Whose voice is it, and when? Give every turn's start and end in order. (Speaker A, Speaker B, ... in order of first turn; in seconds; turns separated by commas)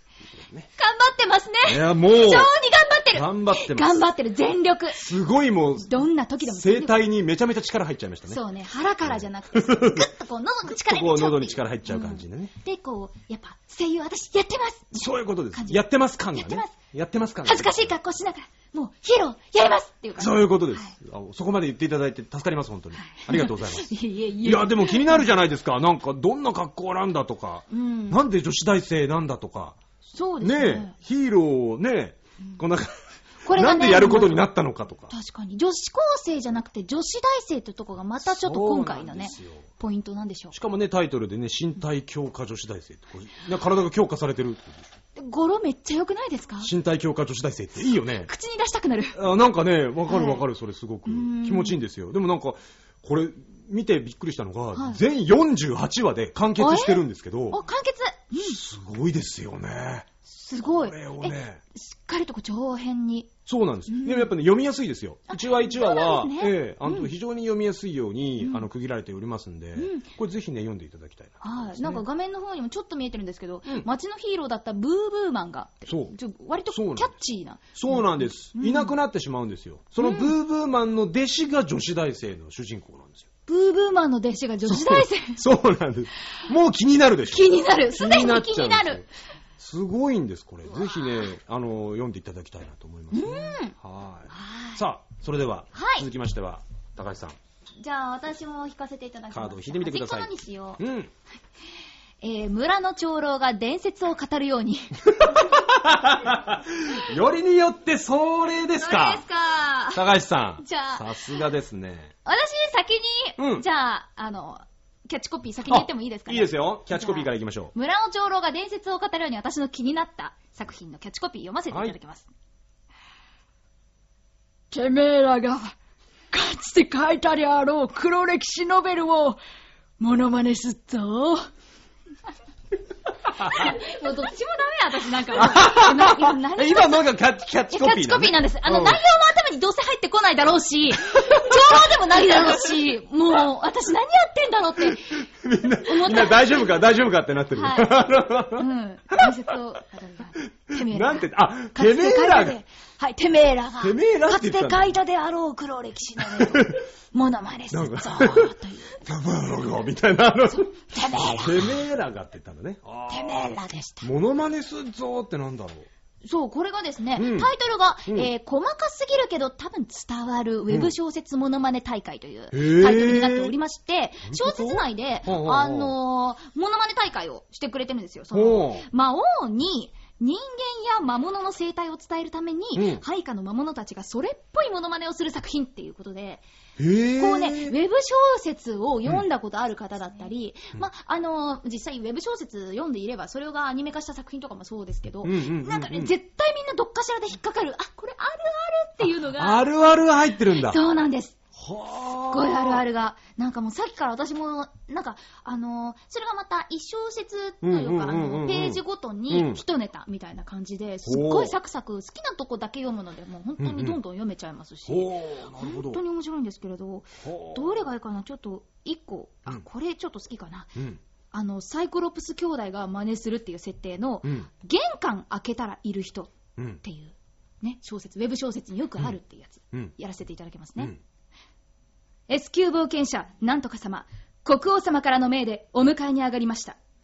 Speaker A: 0.3-0.7, Speaker B: 0.8-5.0, Speaker A: 1.6-2.5, Speaker A: 3.1-4.0, Speaker A: 4.9-8.4, Speaker B: 5.8-7.0, Speaker B: 8.3-15.8, Speaker A: 9.0-10.1, Speaker A: 10.7-12.5, Speaker A: 14.9-17.9, Speaker B: 16.3-16.8, Speaker B: 17.4-20.9, Speaker A: 20.2-29.8, Speaker B: 23.0-25.2, Speaker B: 27.7-28.2, Speaker B: 30.1-30.9, Speaker A: 30.4-35.1, Speaker B: 33.4-34.4, Speaker B: 35.1-40.5, Speaker A: 38.2-39.7, Speaker A: 40.5-44.9, Speaker B: 45.1-46.7, Speaker A: 46.6-48.3, Speaker B: 48.1-49.2, Speaker A: 49.1-57.6, Speaker B: 50.1-50.4, Speaker B: 51.0-51.8, Speaker B: 54.7-55.0, Speaker B: 56.6-58.6, Speaker A: 58.3-60.1, Speaker B: 60.2-63.3, Speaker A: 60.6-61.6, Speaker A: 63.5-72.0, Speaker B: 63.9-64.3, Speaker B: 65.3-67.1, Speaker B: 68.4-68.7, Speaker B: 69.8-70.1, Speaker B: 71.4-78.9, Speaker A: 75.8-76.1, Speaker A: 76.7-77.2, Speaker A: 77.7-83.3, Speaker B: 80.0-80.3, Speaker B: 83.5-85.4, Speaker A: 84.7-89.0, Speaker B: 87.3-89.0, Speaker A: 89.6-97.4, Speaker B: 93.1-93.7, Speaker B: 94.3-94.8, Speaker B: 95.7-96.0, Speaker B: 97.8-100.8, Speaker A: 99.3-101.1, Speaker B: 102.2-105.1, Speaker A: 105.2-109.2, Speaker B: 108.8-110.0, Speaker A: 109.9-112.1, Speaker B: 110.6-111.2, Speaker B: 112.2-122.3, Speaker A: 113.4-113.6, Speaker A: 115.7-117.7, Speaker A: 121.7-122.0, Speaker B: 124.7-125.7, Speaker B: 126.3-129.4, Speaker B: 130.0-131.5, Speaker B: 133.3-137.1, Speaker A: 133.4-133.7, Speaker A: 135.3-139.0, Speaker B: 137.7-145.2, Speaker A: 141.1-141.8, Speaker A: 145.2-149.5, Speaker B: 145.8-146.7, Speaker B: 147.5-159.1, Speaker A: 150.7-152.6, Speaker A: 153.8-154.9, Speaker A: 156.2-156.8, Speaker A: 157.7-160.7, Speaker B: 160.5-161.8, Speaker A: 161.2-165.9, Speaker B: 163.1-164.1, Speaker B: 166.2-186.4, Speaker A: 167.2-167.5, Speaker A: 172.5-173.5, Speaker A: 174.3-175.9, Speaker A: 178.3-178.8, Speaker A: 182.7-183.0, Speaker A: 186.8-187.8, Speaker B: 187.2-199.6, Speaker A: 195.2-196.1, Speaker A: 199.0-200.8, Speaker B: 200.6-201.4, Speaker A: 201.6-202.8, Speaker B: 202.1-231.0, Speaker A: 207.6-209.6, Speaker A: 211.0-211.5, Speaker A: 213.6-214.0, Speaker A: 214.9-216.0, Speaker A: 217.2-217.7, Speaker B: 232.3-236.8